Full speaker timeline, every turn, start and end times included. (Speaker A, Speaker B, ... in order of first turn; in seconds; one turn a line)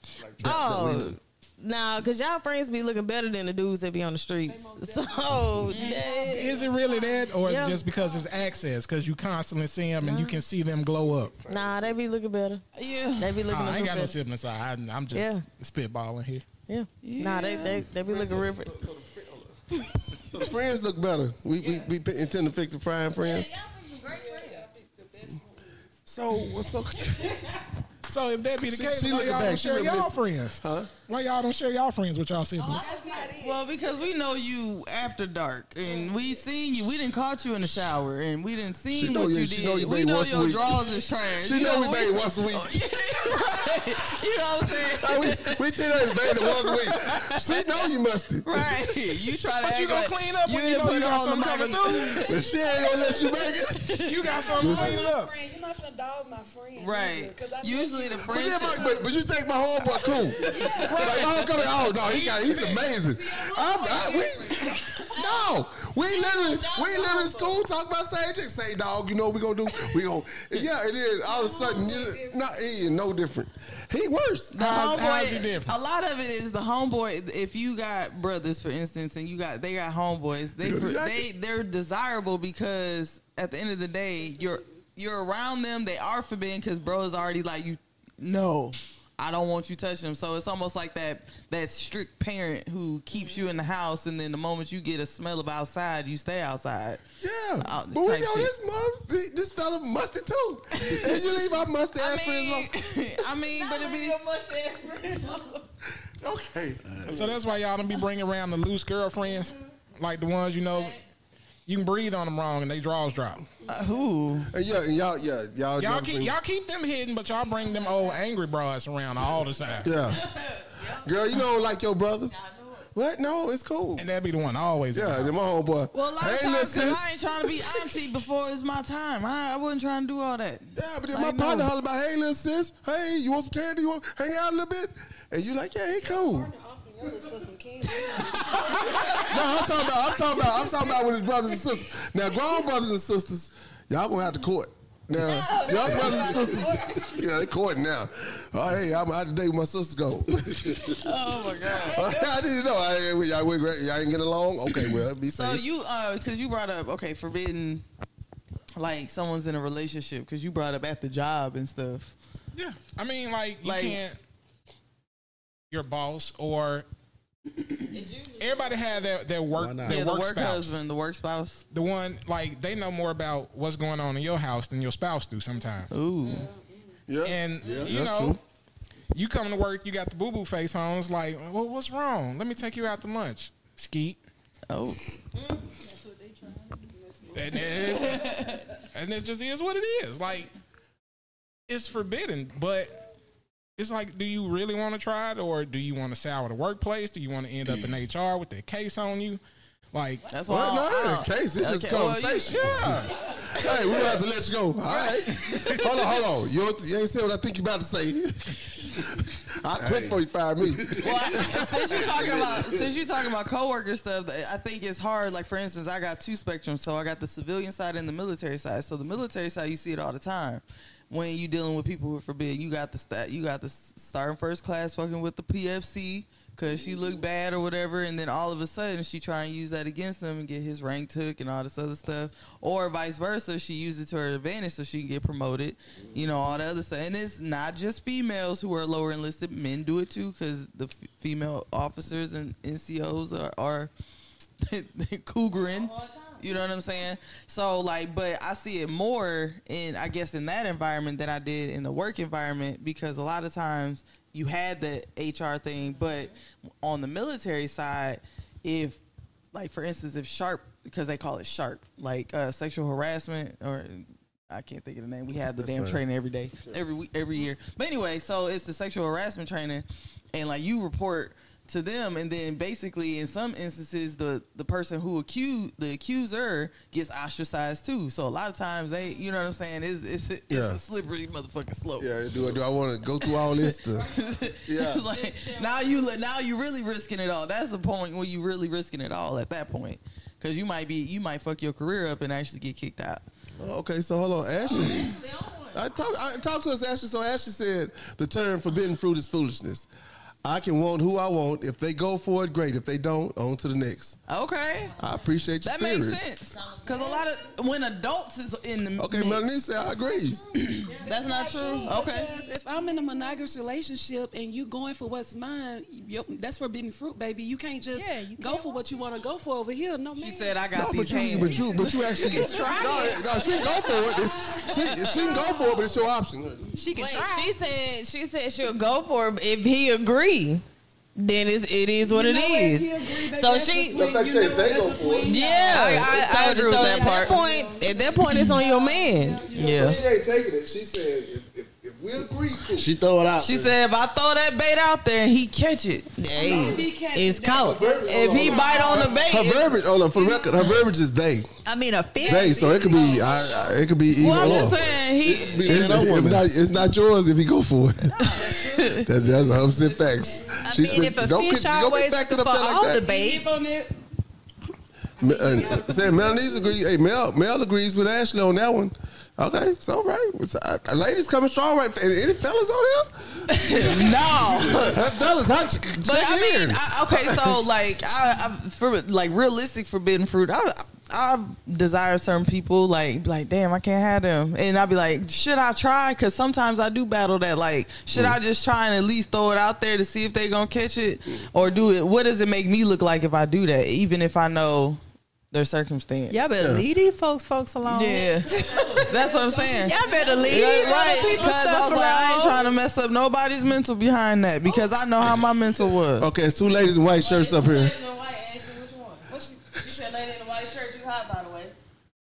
Speaker A: 0.2-0.6
Speaker B: 0.4-1.2
Speaker C: 0.4-6.7
Speaker D: 4.4-8.7
Speaker E: 5.7-6.0
Speaker F: 6.2-11.4
Speaker C: 7.4-7.8
Speaker C: 10.0-10.4
Speaker A: 11.4-11.9
Speaker C: 11.4-12.6
Speaker E: 12.7-13.4
Speaker C: 13.2-14.2
Speaker F: 13.5-16.4
Speaker C: 15.1-15.4
Speaker C: 16.7-18.8
Speaker E: 17.0-17.9
Speaker A: 18.0-19.5
Speaker A: 20.2-23.5
Speaker C: 23.2-24.6
Speaker D: 24.0-25.9
Speaker A: 26.1-27.5
Speaker F: 28.0-32.9
Speaker A: 28.7-30.9
Speaker D: 32.6-33.6
Speaker C: 32.6-33.2
Speaker E: 33.3-47.9
Speaker D: 35.8-36.4
Speaker A: 38.9-42.8
Speaker A: 44.8-49.0
Speaker E: 48.4-52.3
Speaker F: 49.6-52.3
Speaker A: 52.2-54.0
Speaker D: 52.5-53.5
Speaker E: 53.8-54.1
Speaker F: 54.0-55.3
Speaker D: 54.2-59.1
Speaker A: 54.6-55.1
Speaker E: 56.8-58.8
Speaker A: 58.2-74.6
Speaker D: 60.3-61.3
Speaker E: 60.4-61.4
Speaker F: 60.8-61.6
Speaker D: 62.0-65.1
Speaker C: 65.2-65.4
Speaker C: 66.1-67.6
Speaker D: 71.2-73.1
Speaker E: 74.5-97.0
Speaker F: 74.6-75.8
Speaker A: 80.6-81.3
Speaker A: 97.2-102.7
Speaker E: 97.6-98.5
Speaker E: 100.8-101.2
Speaker E: 102.0-104.2
Speaker C: 103.5-105.6
Speaker A: 106.2-107.3
Speaker B: 106.8-107.4
Speaker F: 107.0-111.0
Speaker F: 111.7-113.4
Speaker D: 113.6-114.0
Speaker E: 113.7-114.5
Speaker A: 114.5-116.3
Speaker F: 115.8-120.0
Speaker C: 117.6-118.1
Speaker A: 119.8-120.2
Speaker C: 120.1-121.1
Speaker A: 120.9-122.3
Speaker C: 122.3-122.8
Speaker A: 122.9-124.0
Speaker F: 124.0-125.3
Speaker A: 124.9-127.8
Speaker E: 125.9-131.7
Speaker A: 130.7-136.5
Speaker D: 135.9-139.7
Speaker E: 138.7-139.2
Speaker A: 139.2-151.1
Speaker D: 145.4-147.2
Speaker C: 145.6-146.5
Speaker E: 150.9-152.1
Speaker A: 151.8-155.7
Speaker E: 155.3-157.8
Speaker E: 158.8-162.1
Speaker F: 162.5-164.2
Speaker E: 163.6-164.0
Speaker F: 165.7-166.8
Speaker C: 167.9-169.1
Speaker F: 168.4-170.8
Speaker B: 169.5-170.0
Speaker E: 169.9-171.6
Speaker F: 171.7-175.9
Speaker E: 175.9-176.5
Speaker C: 176.2-176.5
Speaker A: 177.1-178.4
Speaker F: 177.2-178.4
Speaker C: 177.6-177.9
Speaker F: 179.1-184.2
Speaker E: 184.7-185.0
Speaker D: 185.8-188.0
Speaker F: 187.3-190.5
Speaker E: 188.2-188.6
Speaker F: 191.7-192.9
Speaker F: 193.8-199.4
Speaker F: 199.9-200.3
Speaker E: 200.3-202.8
Speaker A: 200.5-212.9
Speaker F: 202.5-203.1
Speaker E: 203.6-204.2
Speaker E: 204.9-205.8
Speaker F: 205.4-205.8
Speaker B: 209.8-211.5
Speaker E: 211.0-243.9
Speaker E: 244.6-259.0
Speaker C: 245.6-246.5
Speaker C: 255.9-256.3
Speaker E: 259.5-282.1
Speaker A: 265.6-266.0
Speaker A: 280.5-280.8
Speaker A: 282.0-284.1
Speaker E: 283.2-293.2
Speaker A: 284.6-285.1
Speaker C: 285.1-286.1
Speaker A: 293.6-295.1
Speaker C: 294.7-295.9
Speaker A: 295.7-299.9
Speaker A: 300.4-304.2
Speaker E: 304.3-305.0
Speaker A: 305.0-306.2
Speaker E: 305.6-309.4
Speaker C: 306.5-307.3
Speaker A: 309.0-310.4
Speaker E: 310.5-312.3
Speaker C: 310.8-312.0
Speaker D: 310.9-326.0
Speaker G: 317.9-318.8
Speaker E: 320.1-322.5
Speaker A: 320.7-326.7
Speaker G: 322.2-323.4
Speaker E: 324.8-325.1
Speaker G: 326.8-327.6
Speaker C: 326.9-330.6
Speaker C: 331.1-334.1
Speaker D: 332.0-340.1
Speaker A: 333.9-335.4
Speaker C: 335.2-339.4
Speaker E: 335.6-337.4
Speaker G: 336.7-337.1
Speaker E: 339.5-340.0
Speaker A: 339.6-342.9
Speaker B: 342.7-343.7
Speaker E: 343.4-346.1
Speaker C: 346.2-347.8
Speaker D: 346.3-349.5
Speaker A: 347.6-351.5
Speaker E: 348.1-349.8
Speaker D: 350.1-350.7
Speaker G: 351.6-353.4
Speaker D: 352.2-353.9
Speaker A: 352.2-355.0
Speaker E: 354.1-356.1
Speaker B: 354.2-356.5
Speaker A: 355.6-358.2
Speaker G: 358.2-358.5
Speaker E: 358.3-359.1
Speaker D: 358.3-360.6
Speaker A: 359.0-363.1
Speaker G: 360.6-363.5
Speaker D: 362.9-363.9
Speaker D: 365.2-366.7
Speaker A: 365.2-377.6
Speaker E: 373.5-375.0
Speaker E: 376.0-395.0
Speaker E: 395.5-396.5
Speaker G: 396.3-399.1
Speaker A: 396.6-396.8
Speaker E: 397.8-406.3
Speaker C: 398.7-399.1
Speaker D: 398.7-401.1
Speaker G: 399.6-402.7
Speaker C: 400.0-401.5
Speaker A: 406.2-407.9
Speaker C: 407.2-411.7
Speaker D: 409.3-409.7